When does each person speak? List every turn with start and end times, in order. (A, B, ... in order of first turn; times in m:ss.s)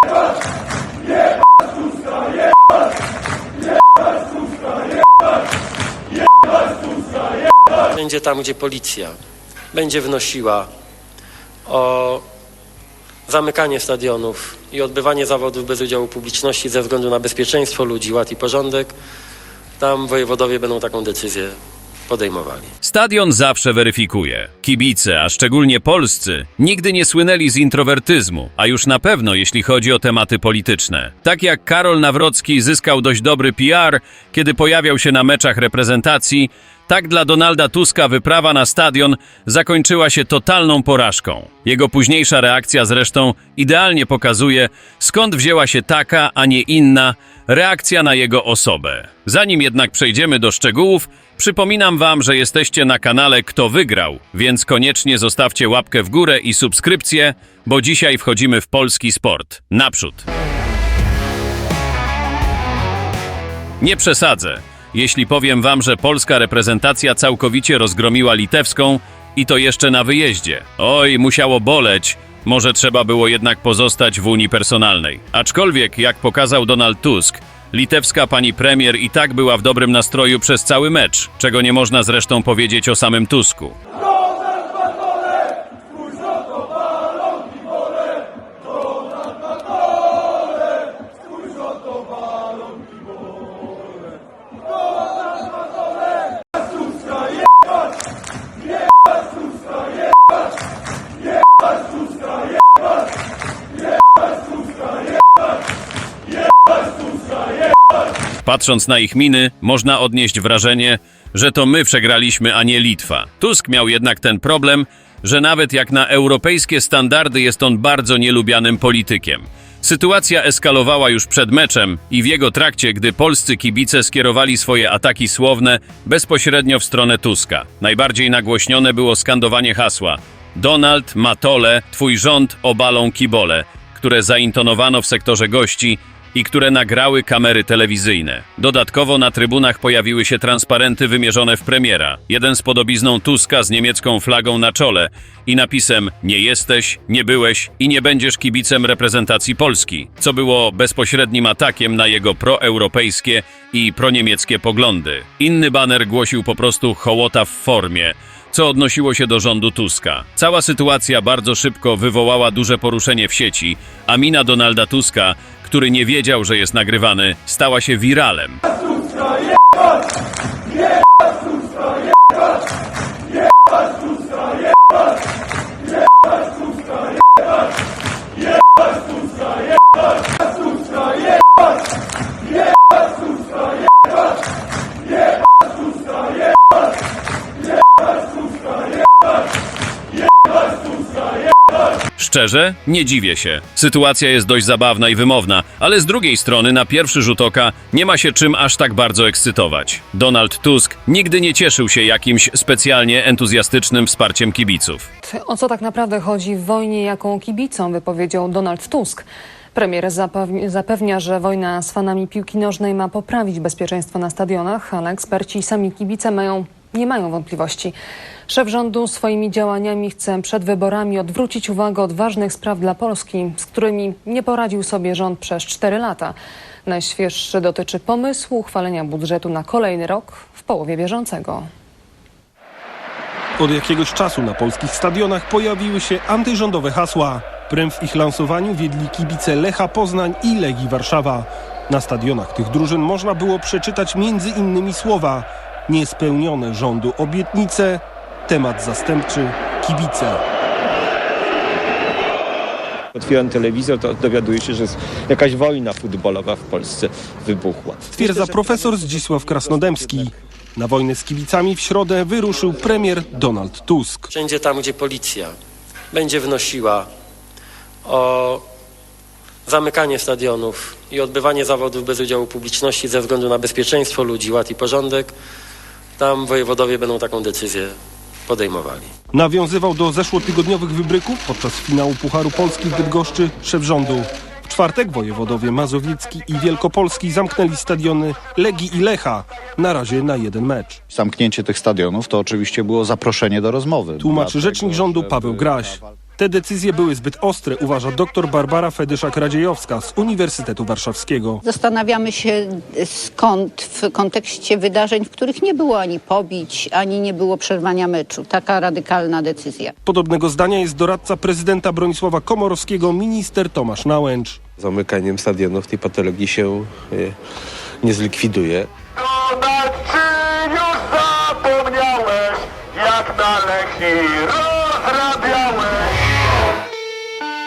0:07.9-0:09.2 A
0:09.7-0:10.7 A
0:11.6-0:12.2 A
0:13.3-0:18.9 A
0:19.8-0:21.6 A
0:22.1-0:22.7 A
0:22.8-1:00.2 B
1:03.8-1:23.7 B
1:48.4-2:48.6 B
3:12.2-3:25.1 B
3:25.2-3:37.9 C
3:38.5-3:51.6 C
3:53.6-4:10.4 D
4:13.1-4:18.6 E
4:18.1-4:24.3 D
4:19.7-4:20.0 E
4:24.3-4:25.5 A
4:26.1-4:27.1 A
4:28.0-4:28.6 A
4:29.6-4:35.3 A
4:36.2-4:38.0 A
4:38.5-4:39.1 A
4:39.3-4:51.0 D
4:51.1-4:55.9 F
4:54.2-5:01.6 D
5:01.6-5:09.9 G
5:10.0-5:14.6 D
5:14.8-5:17.4 H
5:18.0-5:18.9 H
5:21.1-5:21.6 I
5:22.1-5:22.6 I
5:23.8-5:24.7 I